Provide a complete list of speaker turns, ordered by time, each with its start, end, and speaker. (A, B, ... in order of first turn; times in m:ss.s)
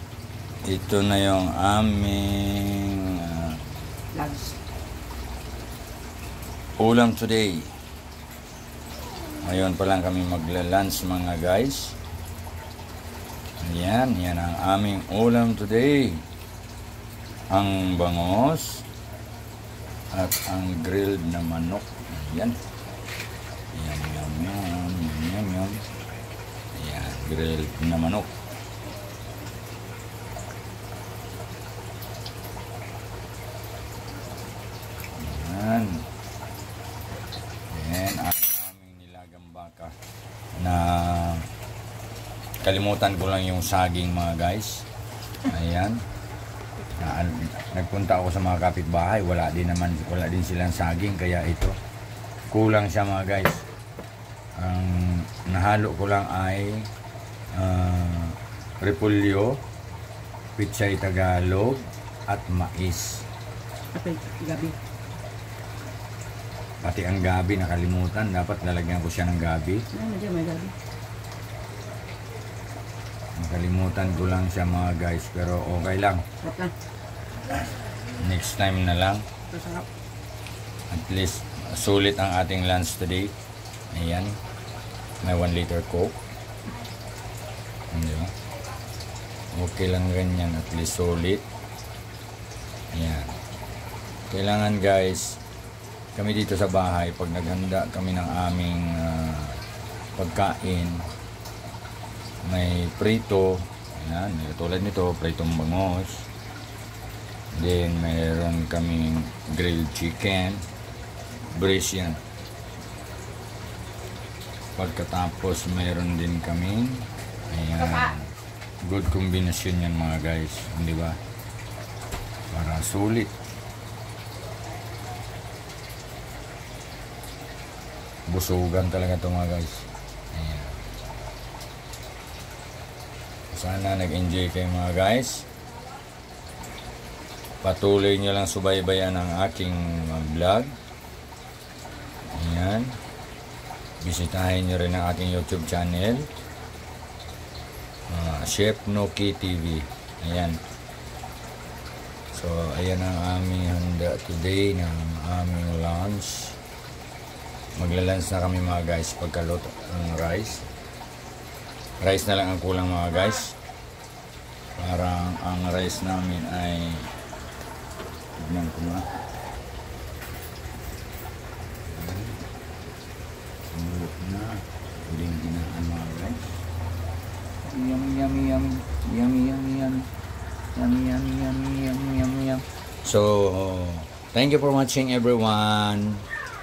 0:00.6-0:03.6 A
0:04.1-0:04.6 B
0:06.8-0:07.7 A
0:09.4-0:12.0 A
0:13.6-0:16.2 A
0:17.5-0:18.9 A
0:20.1-0:22.6 A
0:23.7-0:25.8 A
0:26.8-0:28.3 A
0:35.2-0:36.1 A
0:37.7-0:40.0 A
0:40.6-0:41.5 A
0:42.6-0:44.9 A
0:45.4-0:46.0 A
0:47.0-0:51.8 A
0:52.5-0:53.7 A
0:54.6-0:56.9 A
0:57.5-0:59.6 A
1:00.6-1:03.3 A
1:03.9-1:04.8 B
1:06.8-1:09.9 A
1:09.9-1:10.7 B
1:13.4-1:16.2 A
1:16.4-1:16.8 B
1:17.5-1:19.3 A
1:19.5-1:19.9 B
1:20.9-1:23.3 A
1:23.9-1:24.4 A
1:25.2-1:26.2 A
1:27.9-1:28.3 A
1:29.5-1:31.4 A
1:32.9-1:33.4 A
1:34.3-1:35.4 A
1:36.2-1:39.6 A
1:40.2-1:41.1 A
1:42.4-1:46.3 A
1:47.5-1:50.6 A
1:51.5-1:52.2 A
1:54.8-2:01.2 A
2:02.5-2:03.3 A
2:08.3-2:10.8 A
2:13.5-2:15.5 A
2:17.6-2:20.8 A
2:22.3-2:23.0 A
2:24.0-2:26.3 A
2:28.1-2:30.6 A
2:32.3-2:36.6 A
2:37.8-2:40.7 A
2:42.0-2:43.6 A
2:44.8-2:47.1 A
2:48.4-2:49.1 A
2:51.9-2:52.4 A
2:53.7-2:56.4 A
2:57.6-3:00.1 A
3:00.8-3:06.3 A